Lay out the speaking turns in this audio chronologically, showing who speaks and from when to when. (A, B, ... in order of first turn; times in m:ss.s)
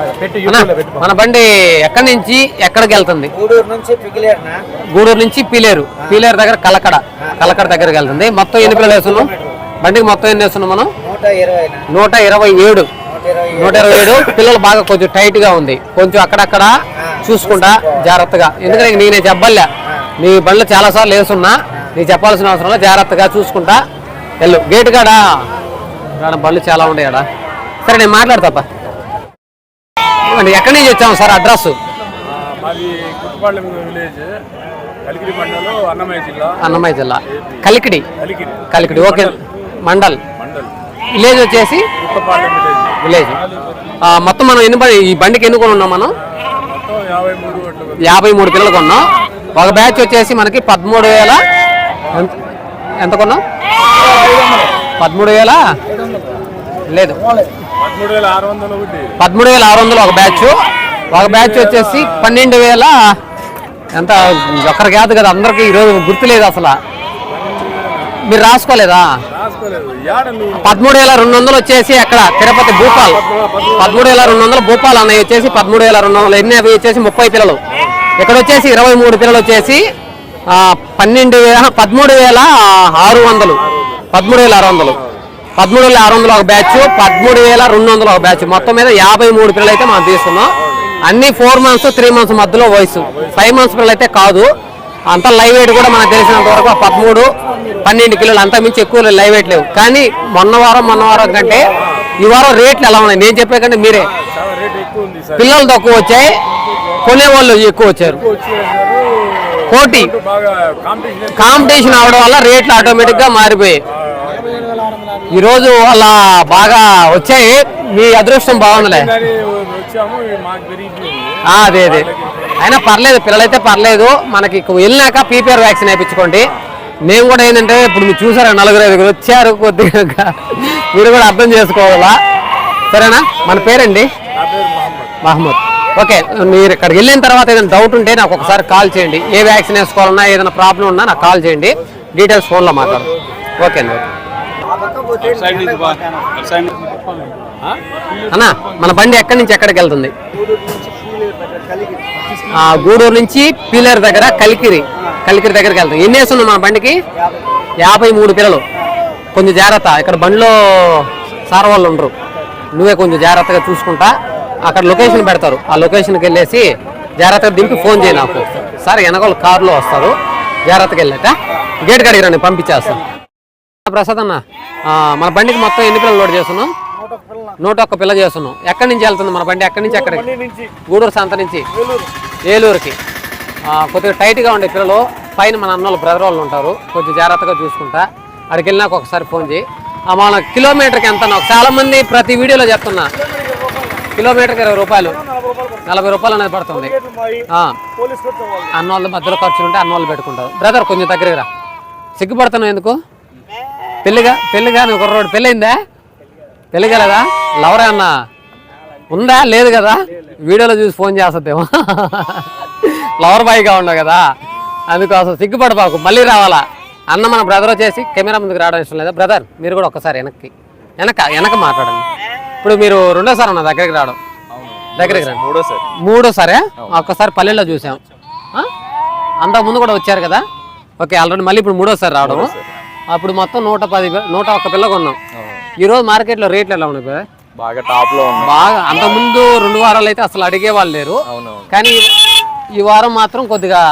0:00.2-0:00.8 A
0:00.4-0:03.3 B
0:03.3-0:04.6 C
0:04.9-0:09.3 B
0:08.7-0:09.6 C
0:09.8-0:10.9 B
0:11.0-0:11.9 C
0:11.9-0:12.9 B
0:13.1-0:13.8 C
0:13.5-0:16.7 B
0:17.0-0:18.1 C
0:17.2-0:19.7 B
0:20.2-0:23.8 B
0:24.4-0:25.2 B
0:26.2-0:27.2 B
0:27.8-0:28.6 B
0:30.3-0:31.8 B
0:32.2-0:34.4 D
0:35.0-0:36.6 D
0:36.6-0:38.1 B
0:37.3-0:37.6 D
0:38.2-0:39.4 D
0:38.7-0:40.2 B
0:40.3-0:40.7 D
0:41.1-0:41.9 B
0:42.0-0:43.0 D
0:43.0-0:43.4 B
0:44.0-0:46.1 B
0:46.4-0:48.2 D
0:48.0-0:51.4 B
0:52.9-0:53.4 B
0:55.0-0:55.6 B
0:56.9-0:57.2 B
0:57.8-0:59.1 D
0:59.2-1:00.6 B
1:01.1-1:03.2 B
1:01.2-1:02.3 D
1:03.9-1:06.8 B
1:07.3-1:08.2 D
1:08.2-1:09.1 B
1:09.3-1:10.7 D
1:10.6-1:13.2 B
1:13.0-1:14.2 D
1:13.8-1:17.6 B
1:18.2-1:19.8 B
1:20.5-1:25.0 B
1:25.6-1:30.5 B
1:31.1-1:34.5 B
1:33.1-1:33.4 D
1:35.1-1:44.1 B
1:41.8-1:42.0 D
1:44.1-1:45.4 D
1:45.4-1:46.3 B
1:47.0-1:48.2 B
1:48.1-1:52.1 D
1:49.7-1:50.1 B
1:51.3-1:53.8 B
1:52.9-1:53.2 D
1:54.0-1:55.1 D
1:55.3-1:59.1 B
1:58.7-2:02.6 D
2:01.4-2:06.5 B
2:07.1-2:12.1 B
2:12.9-2:14.1 B
2:14.3-2:15.1 D
2:15.2-2:24.1 B
2:24.6-2:26.4 C
2:25.3-2:27.1 A
2:28.3-2:30.1 B
2:30.3-2:32.4 C
2:32.5-2:37.0 B
2:37.8-2:38.6 B
2:39.3-2:42.1 B
2:42.8-2:44.1 B
2:44.7-2:46.6 B
2:47.2-2:50.1 B
2:47.8-2:48.4 D
2:50.7-2:53.0 B
2:53.8-2:56.7 B
2:57.6-3:00.3 B
3:00.1-3:00.7 D
3:00.9-3:01.6 B
3:02.5-3:03.0 B
3:03.7-3:13.1 B
3:14.2-3:15.2 B
3:15.8-3:17.0 B
3:17.5-3:17.8 B
3:18.0-3:18.5 D
3:18.7-3:21.5 B
3:22.2-3:23.0 B
3:24.0-3:25.8 B
3:26.7-3:28.1 B
3:29.1-3:34.2 B
3:34.9-3:42.0 B
3:42.6-3:44.2 B
3:44.6-3:45.8 A
3:45.0-3:45.4 B
3:46.0-3:48.0 B
3:49.4-3:50.4 B
3:51.0-3:52.5 B
3:52.2-3:52.6 A
3:53.1-3:55.2 B
3:55.4-3:55.6 A
3:55.8-3:57.2 B
3:57.6-3:59.2 A
3:58.4-4:02.1 B
4:01.3-4:01.7 A
4:02.8-4:03.8 B